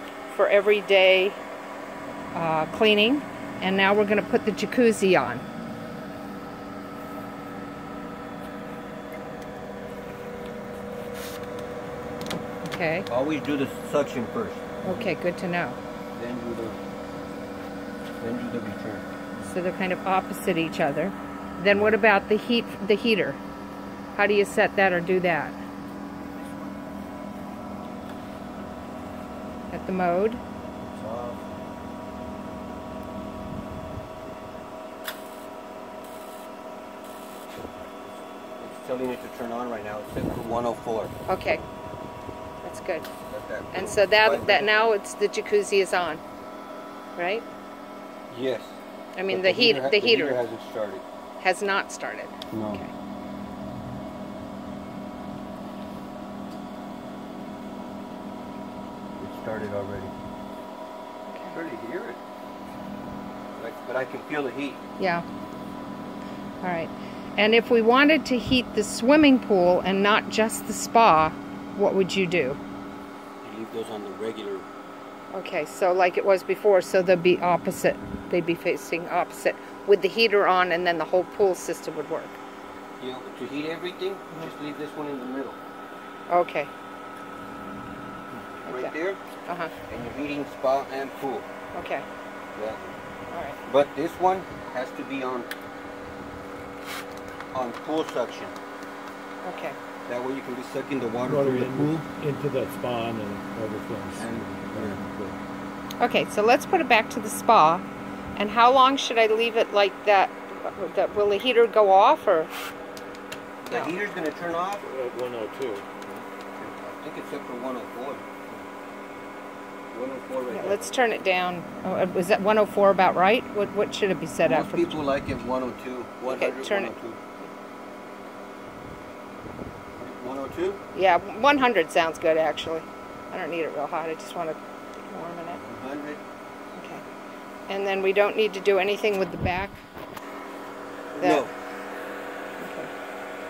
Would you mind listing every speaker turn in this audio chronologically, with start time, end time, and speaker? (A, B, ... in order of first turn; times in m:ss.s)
0:00.3-0:01.4 A
0:02.3-0:05.4 A
0:12.6-0:13.1 A
0:13.1-0:15.1 B
0:14.8-0:15.8 A
0:16.1-0:16.8 B
0:18.2-0:19.0 B
0:19.4-0:23.4 A
0:24.2-0:25.6 A
0:29.7-0:30.4 A
0:31.0-0:31.4 B
0:38.6-0:41.1 B
0:41.3-0:41.6 A
0:42.6-0:43.1 A
0:43.3-0:44.7 B
0:43.7-0:46.2 A
0:47.2-0:47.4 A
0:48.3-0:48.7 B
0:49.2-0:50.4 A
0:49.3-0:51.0 B
0:51.4-0:52.9 A
0:52.5-0:52.8 B
0:59.2-1:00.1 B
1:01.3-1:01.6 A
1:01.5-1:02.2 B
1:03.6-1:04.8 B
1:05.0-1:05.2 A
1:06.6-1:12.6 A
1:13.4-1:14.7 B
1:15.3-1:22.4 A
1:23.0-1:25.6 B
1:26.3-1:26.7 A
1:28.6-1:29.2 B
1:28.6-1:28.9 A
1:29.4-1:29.7 A
1:29.9-1:31.5 B
1:31.8-1:32.0 A
1:32.6-1:33.0 B
1:33.3-1:33.6 A
1:33.7-1:35.5 B
1:37.5-1:38.6 B
1:39.4-1:39.8 A
1:40.1-1:42.0 B
1:41.2-1:45.4 C
1:44.1-1:45.0 B
1:46.0-1:47.8 A
1:48.4-1:52.5 A
1:53.6-1:54.8 B
1:54.8-1:56.2 C
1:56.6-1:58.3 B
1:59.9-2:00.9 B
2:00.5-2:05.0 A
2:04.4-2:07.2 B
2:06.2-2:07.5 A
2:10.0-2:10.8 B
2:10.9-2:15.6 A
2:15.6-2:16.2 B
2:16.8-2:17.0 A
2:17.7-2:19.8 A
2:21.1-2:21.5 B
2:21.2-2:21.5 A
2:22.6-2:22.9 A